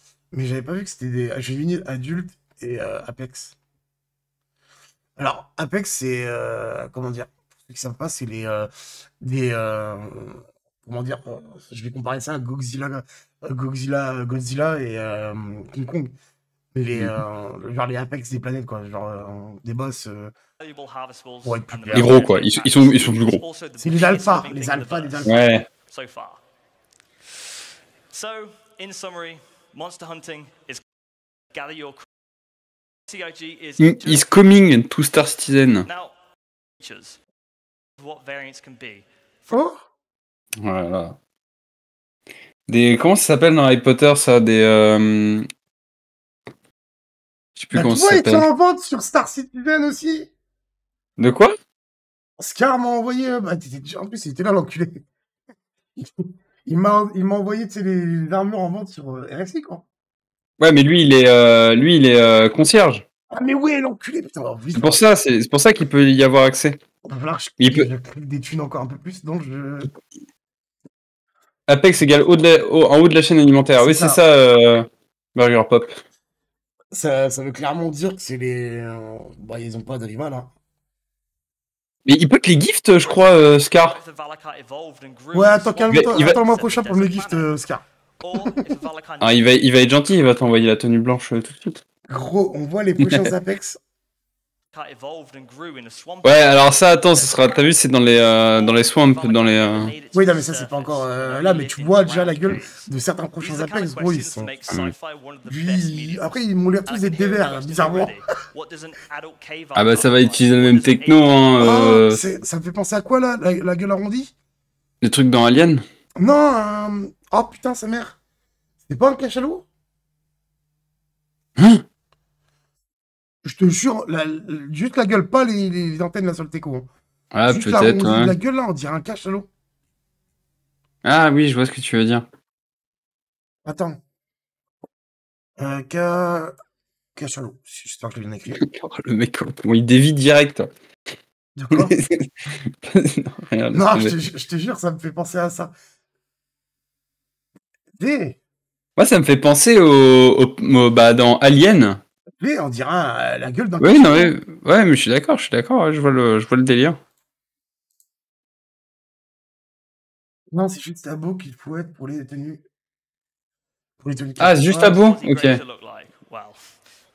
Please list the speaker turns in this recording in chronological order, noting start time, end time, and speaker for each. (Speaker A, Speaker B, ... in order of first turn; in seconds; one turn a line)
Speaker A: 0.3-3.5
Speaker A: 5.2-8.7
Speaker A: 9.2-16.1
Speaker A: 16.7-20.3
Speaker B: 20.6-26.4
Speaker A: 21.4-22.3
Speaker C: 21.9-23.4
Speaker A: 23.8-25.4
Speaker C: 25.2-25.6
Speaker B: 28.1-30.8
Speaker B: 31.5-32.1
Speaker B: 33.1-34.3
Speaker C: 33.8-35.9
Speaker B: 35.9-36.1
Speaker B: 36.8-37.2
Speaker B: 38.0-39.6
Speaker A: 39.5-39.8
Speaker C: 40.6-41.2
Speaker C: 42.7-45.5
Speaker C: 47.6-48.5
Speaker A: 47.7-50.3
Speaker C: 51.2-51.6
Speaker A: 52.4-55.0
Speaker A: 56.0-59.8
Speaker C: 60.6-63.0
Speaker A: 63.3-65.0
Speaker C: 64.8-66.8
Speaker A: 67.0-69.9
Speaker C: 67.6-67.9
Speaker C: 71.7-76.0
Speaker A: 73.8-74.2
Speaker A: 76.9-80.5
Speaker C: 82.1-84.0
Speaker B: 83.0-87.5
Speaker A: 85.3-87.8
Speaker C: 85.9-86.4
Speaker B: 88.2-89.6
Speaker C: 89.2-91.8
Speaker A: 92.1-93.8
Speaker C: 93.0-93.3
Speaker B: 94.7-102.9
Speaker C: 96.2-99.9
Speaker A: 100.1-104.5
Speaker B: 103.4-112.1
Speaker A: 105.5-108.2
Speaker C: 109.8-112.2
Speaker A: 111.6-114.3
Speaker C: 115.0-115.8
Speaker A: 116.2-118.2
Speaker A: 118.9-119.7
Speaker C: 121.6-121.8
Speaker A: 123.4-126.9
Speaker C: 127.3-128.3
Speaker A: 127.5-129.5
Speaker C: 131.0-132.3
Speaker A: 133.7-134.0
Speaker A: 135.6-136.5
Speaker A: 137.2-138.6
Speaker C: 138.6-140.7
Speaker A: 141.6-142.0
Speaker C: 141.7-142.3
Speaker C: 142.8-144.1
Speaker A: 143.7-145.7
Speaker A: 147.9-148.4
Speaker C: 149.0-152.0
Speaker A: 152.4-154.4
Speaker C: 153.8-157.0
Speaker A: 160.5-162.6
Speaker A: 164.0-165.0
Speaker C: 164.4-165.6
Speaker B: 164.7-166.6